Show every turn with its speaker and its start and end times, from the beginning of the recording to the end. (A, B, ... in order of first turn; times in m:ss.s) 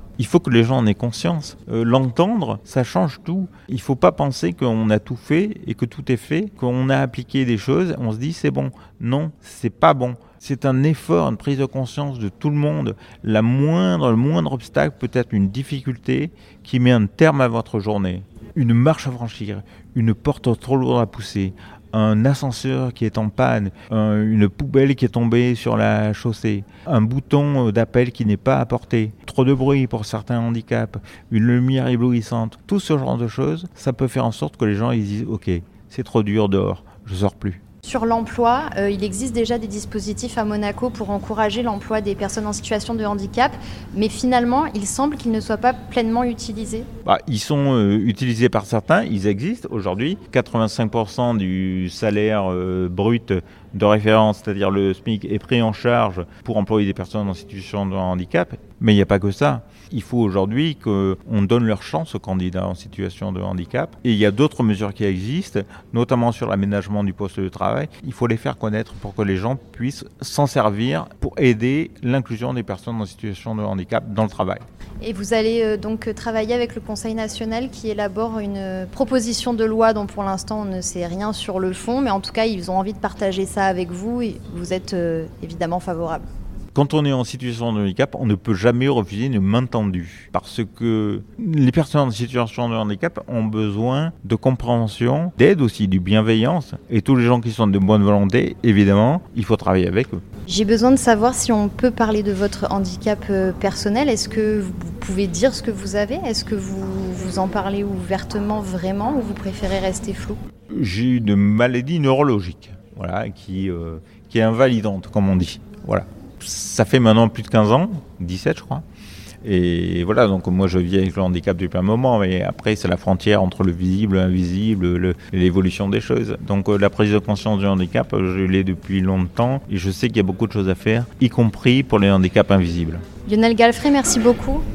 0:00.2-0:37.6 A
0:37.8-0:46.9 B
0:47.0-1:14.6 A
1:15.0-1:26.3 B
1:26.7-1:40.2 A
1:40.5-1:50.4 B
1:50.7-1:58.8 A
1:59.4-2:13.0 A
2:13.3-2:14.6 B